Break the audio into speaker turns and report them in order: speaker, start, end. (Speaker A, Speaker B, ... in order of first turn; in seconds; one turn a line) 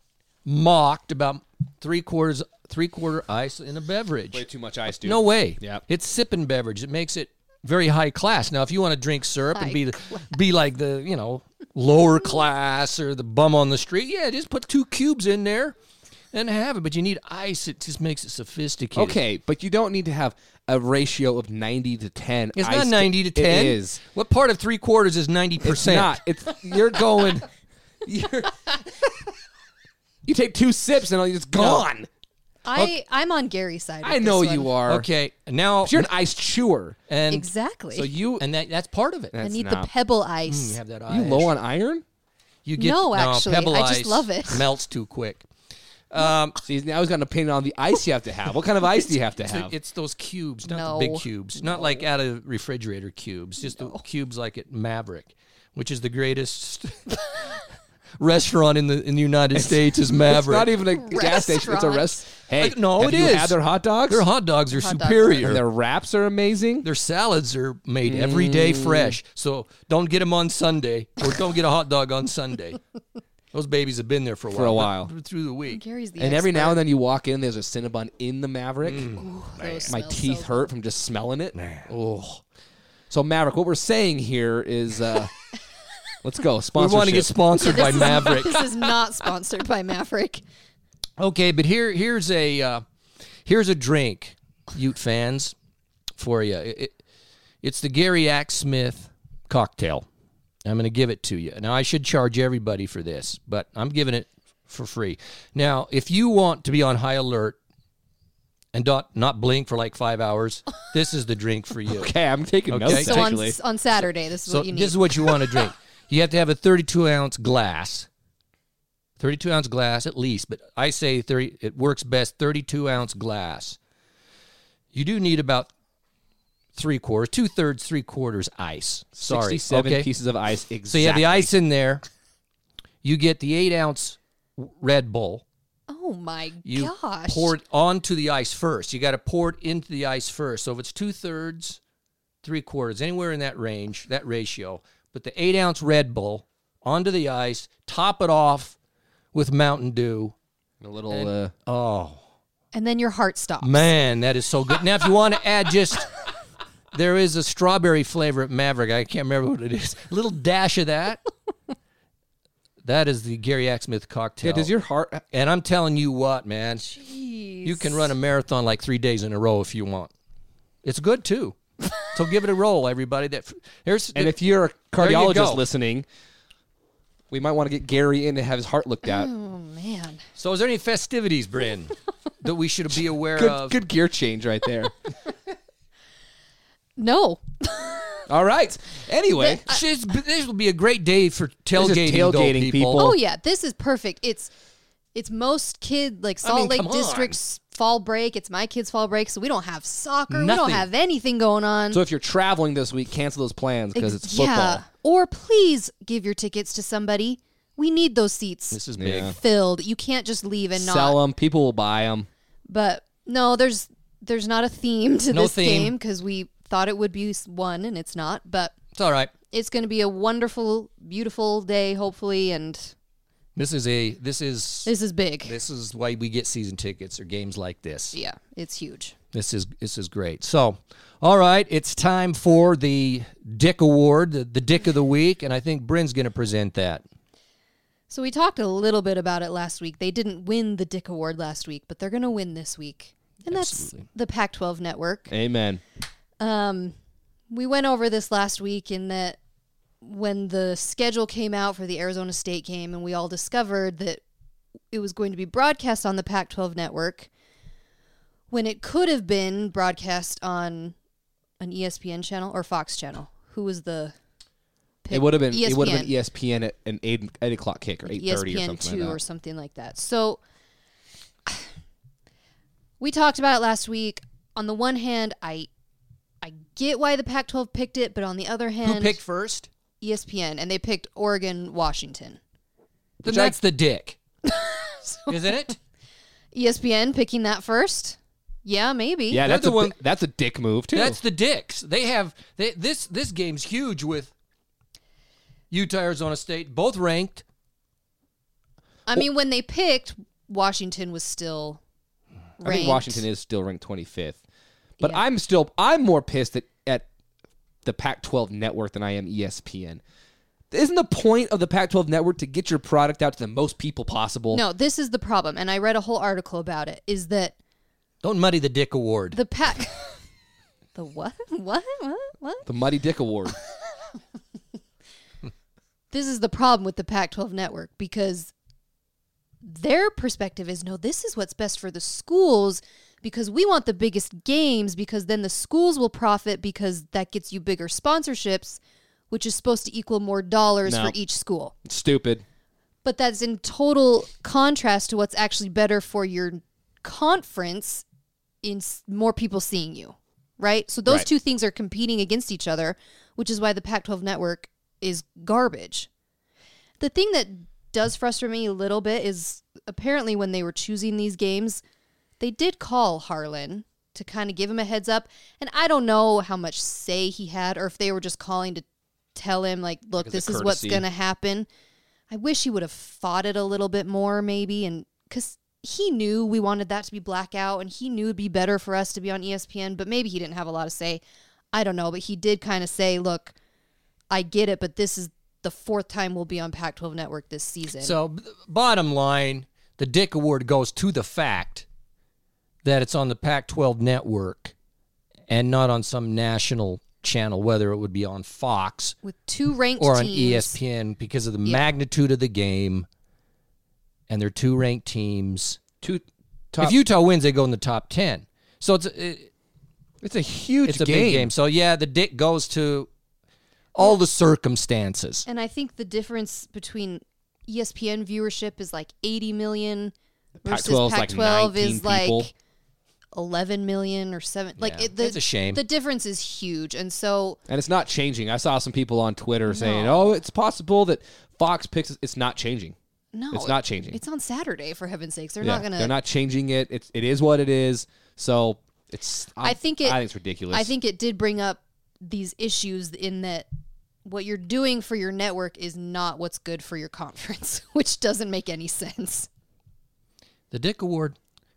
Speaker A: 0.5-4.4
Speaker B: 4.3-5.8
Speaker A: 5.0-15.8
Speaker C: 9.6-10.3
Speaker A: 16.3-19.2
Speaker B: 18.9-24.0
Speaker A: 22.6-26.2
Speaker B: 25.6-27.5
Speaker B: 28.0-29.1
Speaker B: 30.2-32.1
Speaker C: 32.6-34.7
Speaker B: 34.0-35.1
Speaker A: 34.9-36.1
Speaker B: 35.8-37.0
Speaker A: 37.1-37.5
Speaker C: 37.3-38.1
Speaker B: 37.9-38.4
Speaker A: 38.4-39.3
Speaker B: 39.3-39.9
Speaker C: 39.4-40.8
Speaker A: 40.5-41.5
Speaker B: 41.1-42.0
Speaker A: 42.6-45.5
Speaker C: 42.8-44.6
Speaker A: 46.1-46.6
Speaker B: 46.6-49.7
Speaker A: 49.4-57.6
Speaker C: 50.7-51.2
Speaker C: 53.7-54.0
Speaker A: 58.2-60.8
Speaker B: 59.5-64.3
Speaker C: 61.0-62.2
Speaker A: 62.6-65.6
Speaker C: 64.7-65.4
Speaker B: 65.4-66.9
Speaker A: 66.8-72.8
Speaker B: 68.0-69.2
Speaker A: 73.5-75.8
Speaker B: 74.5-75.1
Speaker C: 75.7-76.8
Speaker B: 76.2-79.2
Speaker A: 78.8-79.9
Speaker C: 79.2-80.7
Speaker B: 79.9-81.6
Speaker A: 81.6-82.4
Speaker B: 83.1-85.3
Speaker B: 86.2-88.1
Speaker A: 86.8-88.9
Speaker C: 87.6-90.4
Speaker A: 91.2-92.8
Speaker A: 93.5-95.5
Speaker A: 96.2-97.0
Speaker A: 97.6-100.1
Speaker A: 100.6-107.6
Speaker A: 108.7-112.1
Speaker B: 111.9-113.6
Speaker A: 112.7-113.3
Speaker C: 112.9-115.7
Speaker A: 114.5-118.1
Speaker A: 119.2-123.8
Speaker A: 124.9-125.7
Speaker A: 126.8-130.1
Speaker B: 129.2-131.5
Speaker A: 130.9-132.0
Speaker A: 133.0-135.4
Speaker C: 135.9-137.5
Speaker A: 136.6-141.8
Speaker A: 142.4-148.8
Speaker A: 149.3-150.3
Speaker B: 150.8-151.5
Speaker A: 151.1-152.2
Speaker C: 152.7-153.9
Speaker A: 153.6-156.2
Speaker A: 156.9-161.2
Speaker A: 162.8-164.7
Speaker B: 164.4-165.2
Speaker A: 165.3-166.9
Speaker C: 166.8-168.1
Speaker A: 167.6-170.1
Speaker A: 170.8-174.4
Speaker B: 174.1-176.1
Speaker A: 174.9-175.6
Speaker B: 177.3-179.3
Speaker C: 179.1-180.2
Speaker A: 180.4-183.8
Speaker B: 183.3-184.9
Speaker C: 187.0-188.3
Speaker B: 188.3-189.8
Speaker C: 189.3-189.8
Speaker A: 189.7-193.1
Speaker B: 191.8-193.2
Speaker C: 192.9-194.5
Speaker C: 195.1-202.0
Speaker A: 196.4-197.4
Speaker A: 200.3-200.9
Speaker B: 201.9-204.8
Speaker C: 203.9-211.2
Speaker A: 208.7-209.4
Speaker B: 209.0-209.3
Speaker B: 210.8-212.3
Speaker C: 212.7-218.8
Speaker A: 215.3-215.9
Speaker A: 218.9-219.3
Speaker C: 219.5-222.9
Speaker A: 223.6-224.9
Speaker C: 224.9-225.5
Speaker A: 225.4-228.2
Speaker C: 228.1-229.1
Speaker A: 229.3-237.0
Speaker C: 238.1-245.3
Speaker A: 243.5-244.1
Speaker B: 245.3-245.8
Speaker C: 246.4-246.9
Speaker C: 247.5-249.4
Speaker C: 250.0-254.2
Speaker C: 254.9-257.3
Speaker C: 258.5-260.9
Speaker C: 261.6-264.1
Speaker C: 265.0-266.1
Speaker B: 265.1-269.2
Speaker C: 268.1-270.4
Speaker C: 273.0-275.7
Speaker C: 276.4-279.2
Speaker A: 278.8-279.7
Speaker C: 280.0-282.4
Speaker A: 283.2-284.2
Speaker B: 283.3-283.6
Speaker C: 284.4-285.4
Speaker A: 285.3-285.8
Speaker C: 286.5-289.4
Speaker B: 289.3-291.2
Speaker A: 289.4-289.9
Speaker A: 290.9-294.3
Speaker A: 295.7-297.4
Speaker C: 299.1-301.8
Speaker C: 302.6-303.2
Speaker B: 302.6-304.4
Speaker B: 305.0-307.1
Speaker B: 307.9-310.0
Speaker B: 310.7-314.6
Speaker C: 314.5-317.6
Speaker A: 318.2-319.4
Speaker C: 319.3-320.2
Speaker C: 320.9-322.7
Speaker B: 322.7-323.6
Speaker C: 326.1-328.5
Speaker C: 329.6-341.7
Speaker B: 340.9-341.2
Speaker B: 341.8-342.4
Speaker C: 343.1-348.0
Speaker C: 348.6-356.1
Speaker C: 357.0-361.8
Speaker C: 362.4-371.7
Speaker B: 370.2-371.1
Speaker C: 372.3-383.5
Speaker C: 384.3-388.2
Speaker A: 388.0-391.9
Speaker A: 392.8-394.7
Speaker A: 395.5-399.1
Speaker C: 399.2-400.8
Speaker A: 400.0-403.1
Speaker A: 404.3-405.8
Speaker B: 406.0-407.0
Speaker A: 406.8-409.5
Speaker B: 410.2-411.5
Speaker A: 410.9-413.1
Speaker A: 413.9-415.4
Speaker C: 415.5-420.1
Speaker B: 420.6-422.5
Speaker C: 420.6-422.5
Speaker C: 423.3-427.6
Speaker A: 424.8-425.8
Speaker B: 427.7-432.9
Speaker C: 429.7-430.3
Speaker C: 433.3-436.1
Speaker B: 433.5-434.2
Speaker B: 435.6-440.9
Speaker C: 439.6-440.2
Speaker C: 440.7-443.7
Speaker C: 444.2-449.5
Speaker A: 450.7-451.4